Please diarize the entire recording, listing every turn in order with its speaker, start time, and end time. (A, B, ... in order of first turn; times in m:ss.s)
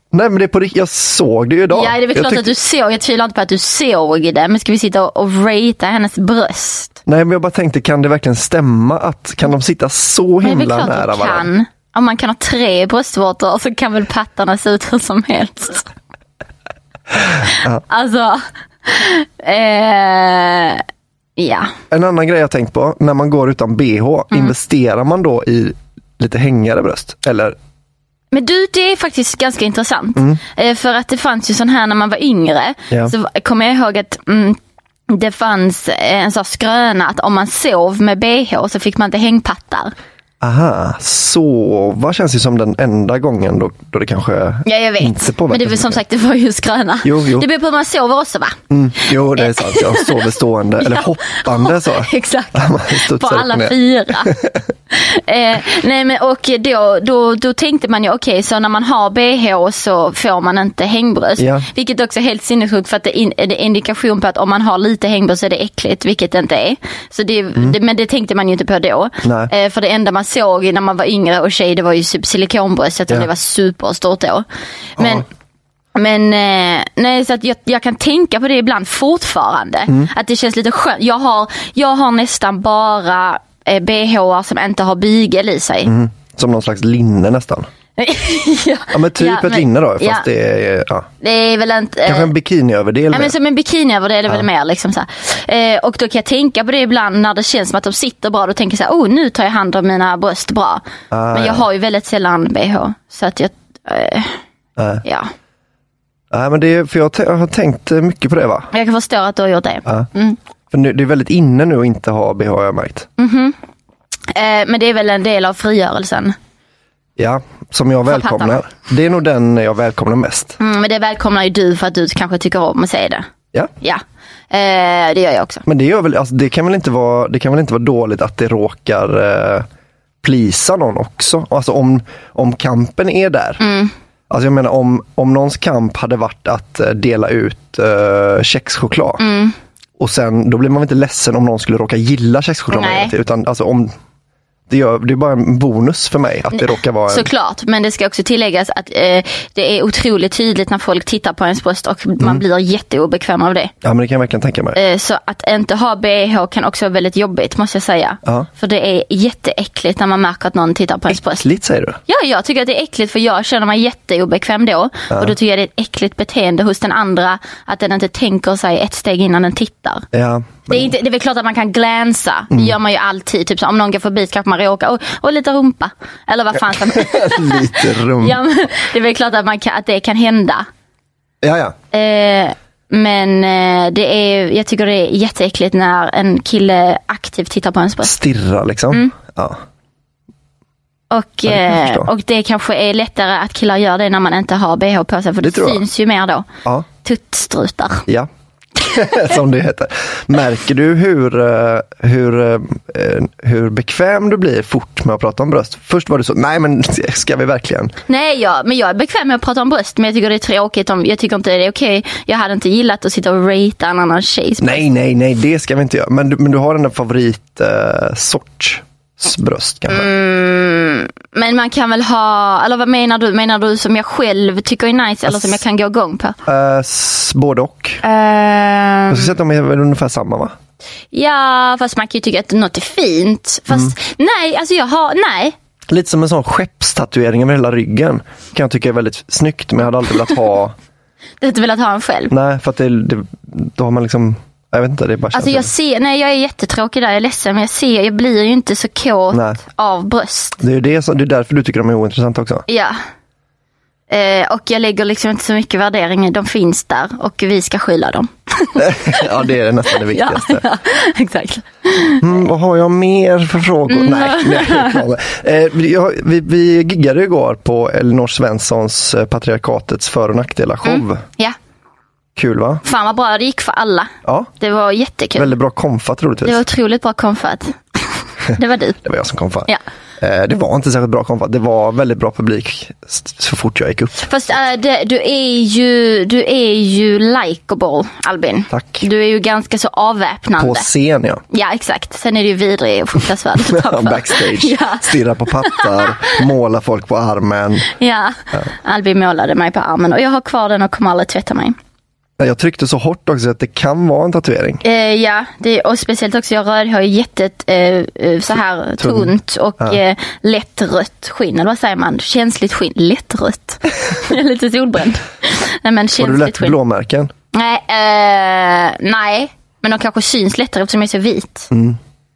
0:00.1-0:02.5 A
0:01.7-0:07.0 B
0:07.0-0:11.5 A
0:10.4-0:15.9 B
0:17.9-0:20.8 B
0:21.4-0:21.7 B
0:21.9-0:27.6 A
0:28.3-0:39.9 B
0:40.4-0:46.0 A
0:44.6-0:54.4 B
0:47.0-0:47.5 A
0:48.7-0:54.6 A
0:54.9-1:14.4 B
1:01.4-1:01.7 A
1:09.2-1:09.5 A
1:15.0-1:15.2 B
1:15.0-1:15.2 A
1:15.9-1:25.9 B
1:25.8-1:27.7 A
1:28.0-1:30.2 B
1:28.9-1:31.1 A
1:31.2-1:32.3 B
1:32.0-1:33.3 A
1:33.1-1:44.4 B
1:41.1-1:41.7 A
1:44.8-1:45.0 A
1:45.0-1:45.3 B
1:46.3-1:48.7 A
1:48.7-1:50.4 B
1:50.7-1:53.1 A
1:53.2-1:53.6 B
1:54.3-1:56.4 B
1:57.2-2:00.6 A
1:58.1-1:58.6 B
2:00.6-2:03.2 B
2:03.8-2:05.6 B
2:05.6-2:09.7 A
2:10.2-2:13.6 A
2:13.6-2:13.9 B
2:14.3-2:19.2 A
2:19.2-2:19.5 B
2:20.0-2:23.9 A
2:22.7-2:23.1 B
2:24.7-2:27.3 A
2:26.6-2:33.7 B
2:33.8-2:34.8 A
2:34.7-2:41.4 B
2:41.1-2:42.0 A
2:42.1-2:50.0 B
2:50.1-2:50.9 A
2:50.7-3:00.6 B
2:56.6-2:58.4 A
3:01.4-3:01.7 A
3:01.9-3:08.1 B
3:08.0-3:09.6 A
3:11.1-3:16.5 B
3:11.5-3:12.1 A
3:15.4-3:15.8 A
3:17.0-3:18.0 B
3:18.1-3:27.9 A
3:28.1-3:34.8 B
3:34.6-3:40.1 A
3:39.9-3:46.4 B
3:45.3-3:45.6 A
3:46.4-3:48.0 A
3:48.0-3:49.3 B
3:49.1-3:50.6 A
3:51.1-3:55.5 B
3:55.9-4:00.7 A
4:01.4-4:02.3 B
4:02.3-4:05.7 A
4:05.3-4:10.6 B
4:09.3-4:09.6 A
4:10.6-4:12.6 A
4:12.7-4:13.0 B
4:14.1-4:19.3 B
4:18.8-4:20.6 A
4:19.9-4:22.2 B
4:22.2-4:31.2 A
4:23.9-4:25.0 B
4:30.8-4:31.6 B
4:32.4-4:32.8 A
4:32.8-4:35.5 B
4:34.2-4:34.5 A
4:35.4-4:36.6 A
4:36.4-4:39.0 B
4:39.0-4:44.5 A
4:44.2-4:50.9 B
4:48.7-4:49.0 A
4:50.6-4:51.4 A
4:51.5-4:56.3 B
4:53.6-4:57.9 A
4:58.0-5:01.8 B
5:02.4-5:04.8 A
5:04.8-5:16.8 B
5:09.0-5:10.0 A
5:16.2-5:17.3 A
5:17.5-5:21.7 B
5:21.7-5:22.0 A